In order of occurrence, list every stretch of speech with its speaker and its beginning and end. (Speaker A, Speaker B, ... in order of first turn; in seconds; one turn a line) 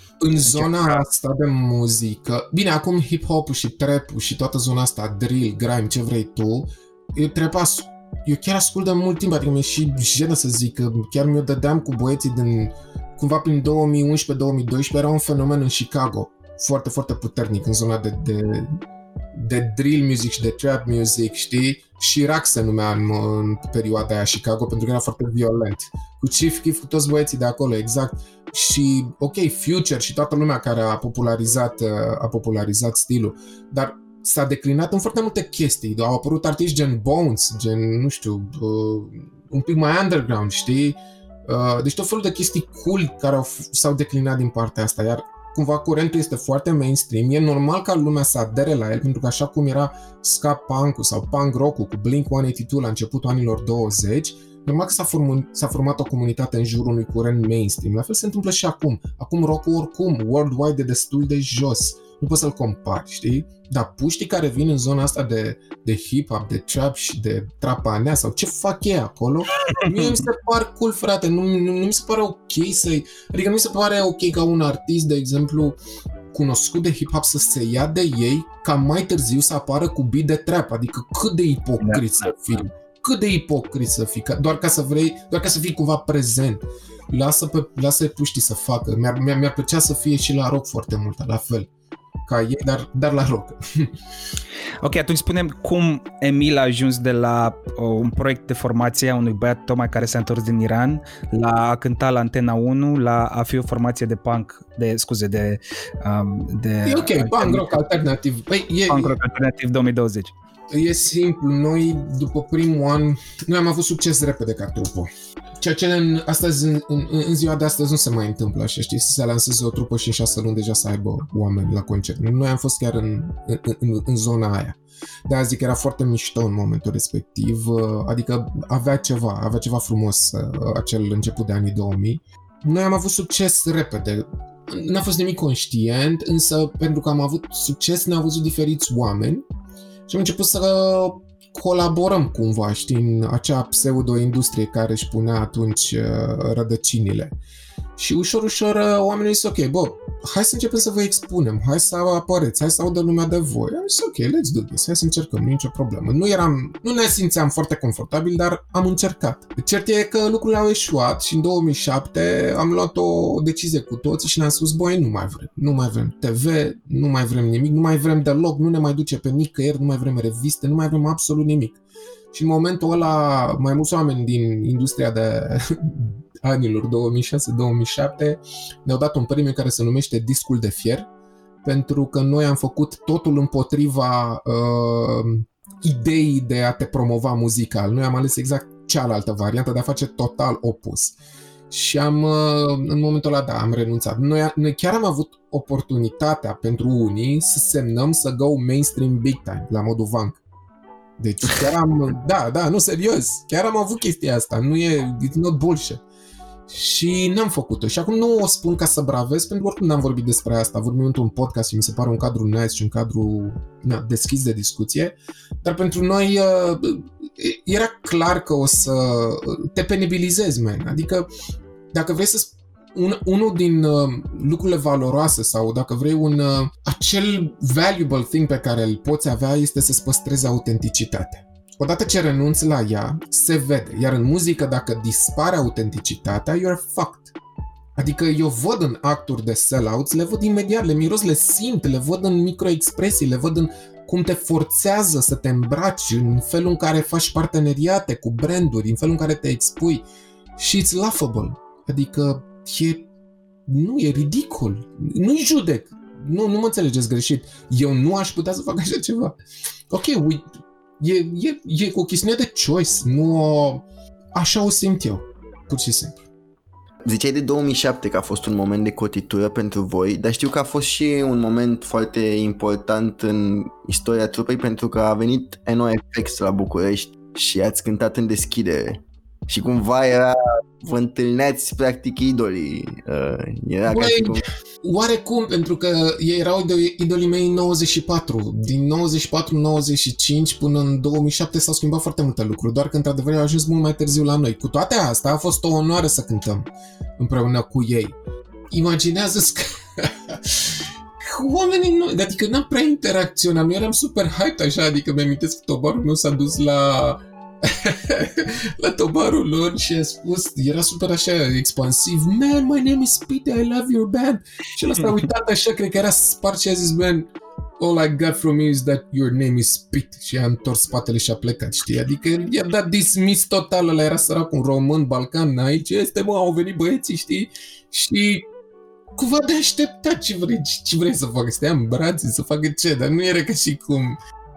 Speaker A: 0.2-18.8
Speaker B: 0.3-1.0
Speaker A: 19.3-75.8
Speaker B: 69.7-70.2
Speaker A: 76.3-91.7
Speaker B: 81.8-82.3
Speaker A: 92.2-93.9
Speaker B: 94.8-107.7
Speaker A: 106.8-109.2
Speaker B: 108.9-110.3
Speaker A: 110.7-115.1
Speaker A: 115.6-139.4
Speaker A: 140.1-147.3
Speaker A: 147.9-171.8
Speaker A: 172.3-181.1
Speaker A: 181.6-191.2
Speaker A: 191.7-200.4
Speaker A: 201.2-206.0
Speaker A: 206.7-221.3
Speaker A: 221.9-237.3
Speaker A: 238.0-250.0
Speaker A: 250.6-253.1
Speaker A: 253.7-259.4
Speaker A: 259.9-260.5
Speaker A: 261.0-266.2
Speaker C: 267.0-284.4
Speaker A: 283.9-298.2
Speaker A: 298.7-328.5
Speaker A: 329.1-334.2